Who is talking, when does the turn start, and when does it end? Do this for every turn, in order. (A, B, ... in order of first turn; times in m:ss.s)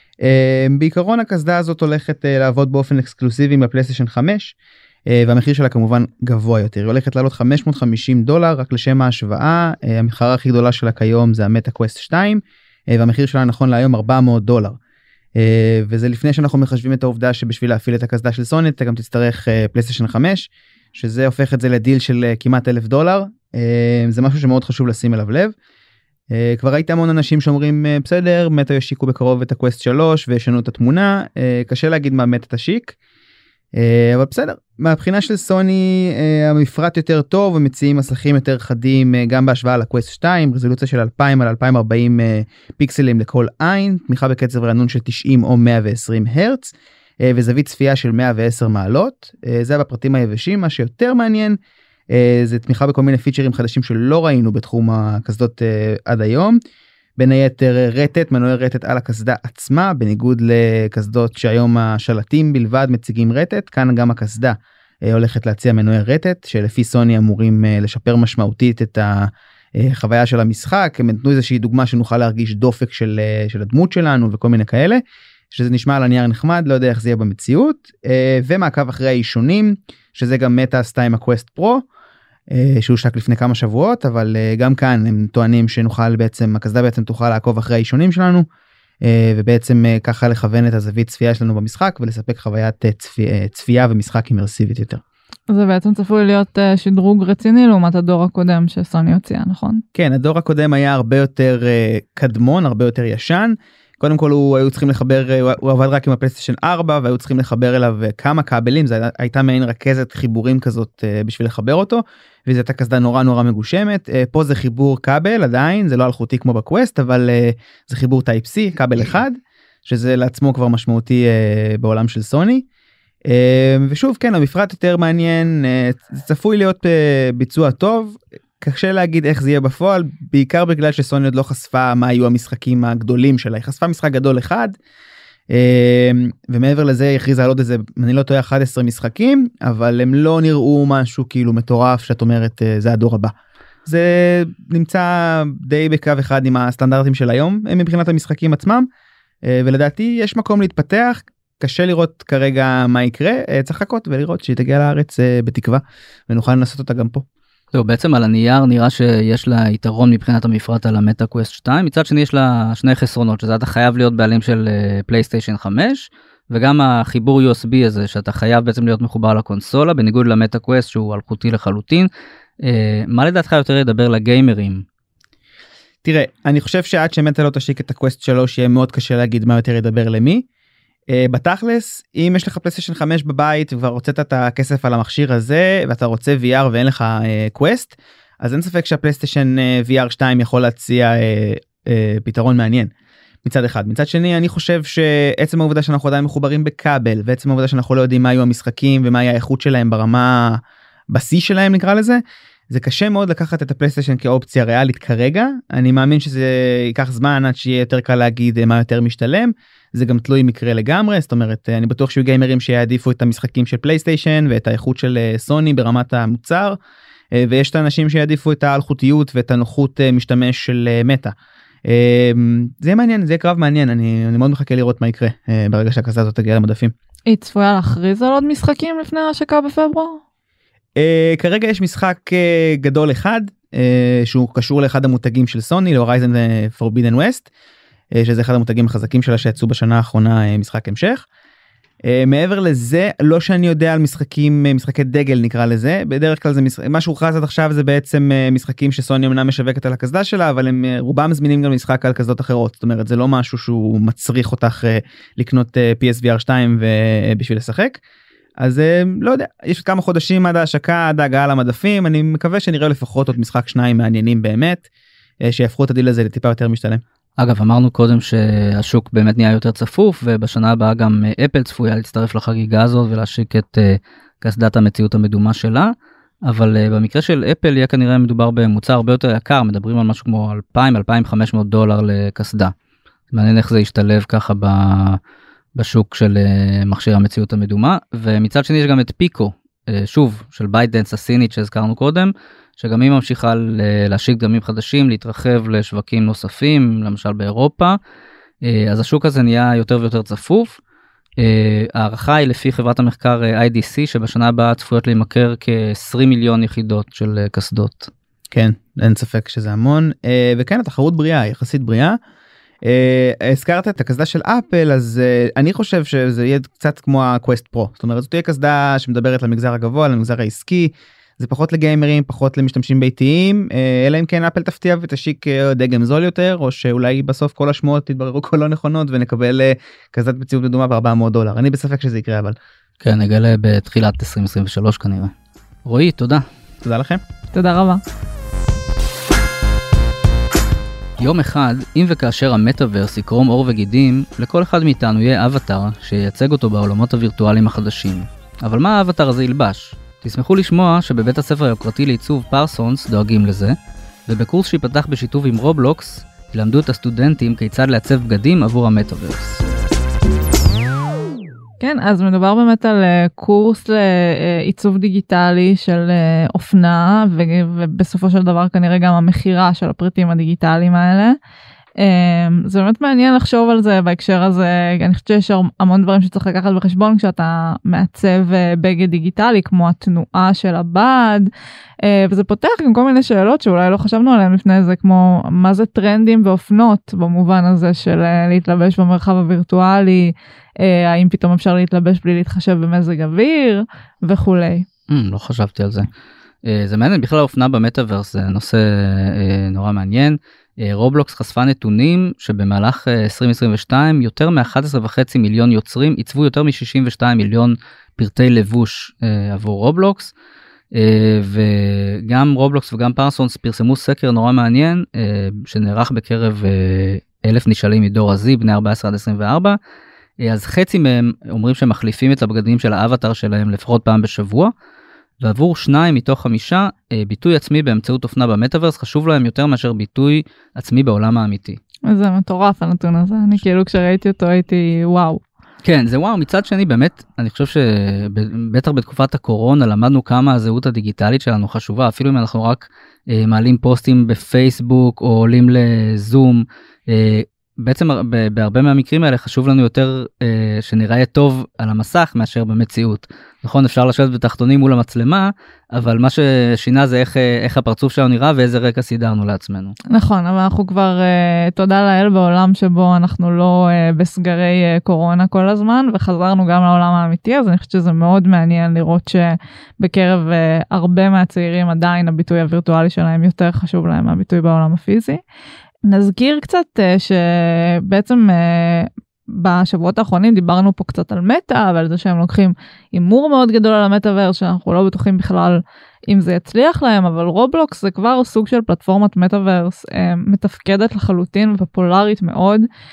0:00.2-0:04.6 A
0:05.1-0:14.8 A
0:15.4-0:25.6 A
0:26.3-0:33.0 A
0:33.7-0:51.6 A
0:52.1-0:56.6 A
0:57.2-1:21.8 A
1:22.5-1:28.5 A
1:29.0-1:35.0 A
1:35.5-1:39.8 B
1:40.0-2:02.6 A
2:03.3-2:14.8 A
2:15.5-2:23.3 A
2:23.8-2:28.9 A
2:29.4-2:37.2 A
2:37.7-2:52.1 C
2:52.6-2:54.8 C
2:56.0-3:00.4 A
3:01.1-3:12.9 A
3:13.4-3:36.8 A
3:37.3-3:41.3 A
3:41.9-3:46.9 A
3:47.3-3:50.2 B
3:51.0-3:57.5 A
3:58.1-4:01.3 A
4:02.0-4:18.0 A
4:18.6-4:24.9 A
4:25.4-4:27.0 A
4:27.4-4:42.7 C
4:43.3-4:45.2 C
4:45.8-4:58.0 C
4:58.6-5:00.8 C
5:01.4-5:08.1 C
5:08.5-5:12.2 A
5:12.8-5:32.6 A
5:33.0-5:35.3 C
5:35.8-5:36.4 C
5:36.8-5:37.2 A
5:37.5-5:38.0 B
5:41.2-5:53.8 C
5:54.3-5:59.6 C
6:01.8-6:11.4 B
6:12.0-6:21.5 B
6:22.0-6:34.9 B
6:35.1-6:36.1 C
6:36.6-6:50.3 C
6:50.9-6:59.8 C
7:00.4-7:04.7 C
7:05.4-7:11.8 C
7:12.1-7:15.4 B
7:15.8-7:40.0 C
7:40.1-7:55.4 B
7:56.0-8:12.9 B